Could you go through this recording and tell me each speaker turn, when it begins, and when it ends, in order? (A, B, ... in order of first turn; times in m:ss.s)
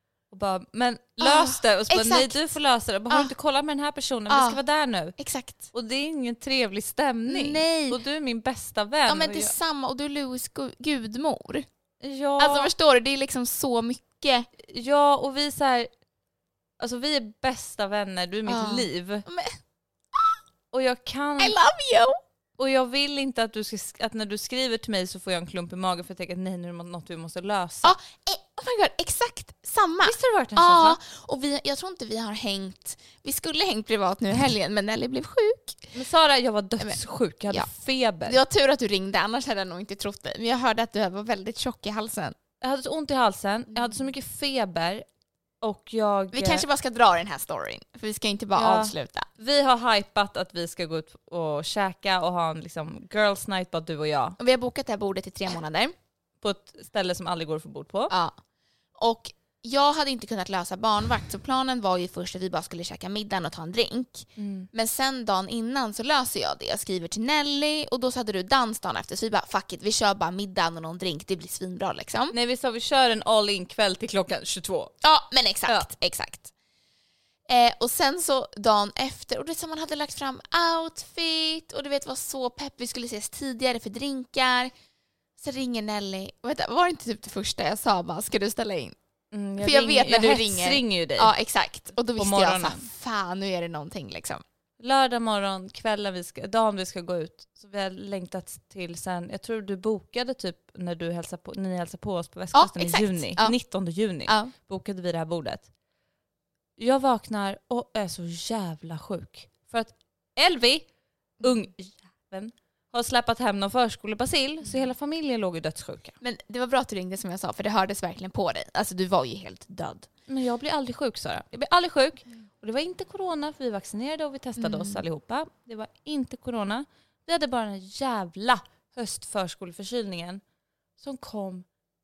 0:00.3-0:05.2 A
0:01.2-0:02.4 B
0:04.3-0:04.6 B
0:05.2-0:05.7 B
0:05.7-0:09.5 A
0:07.3-0:08.0 B
0:09.1-0:11.7 B
0:12.0-0:12.7 A
0:12.4-0:14.5 B
0:14.7-0:15.9 A
0:16.8-0:19.2 A
0:18.5-0:19.6 B
0:20.7-0:21.6 A
0:21.4-0:22.2 B
0:22.6-0:28.0 A
0:27.8-0:35.9 B
0:30.0-0:31.0 A
0:35.9-0:38.4 A
0:36.8-0:37.7 B
0:38.2-0:42.3 B
0:42.6-0:45.0 A
0:45.6-0:46.7 A
0:46.3-0:49.3 B
0:48.5-0:54.4 A
0:54.4-0:55.9 B
0:56.4-0:58.1 A
0:58.1-0:58.4 B
0:59.0-1:12.3 B
1:04.4-1:04.7 A
1:12.3-1:14.9 A
1:15.0-1:16.5 B
1:17.5-1:24.7 B
1:25.4-1:29.0 B
1:29.3-1:31.3 A
1:29.6-1:34.4 B
1:32.1-1:32.8 A
1:34.8-1:45.7 A
1:42.5-1:43.6 B
1:44.2-1:44.5 B
1:46.8-1:50.9 A
1:51.4-1:56.2 A
1:56.2-2:00.1 B
2:00.3-2:10.4 A
2:04.6-2:05.0 B
2:11.0-2:11.7 A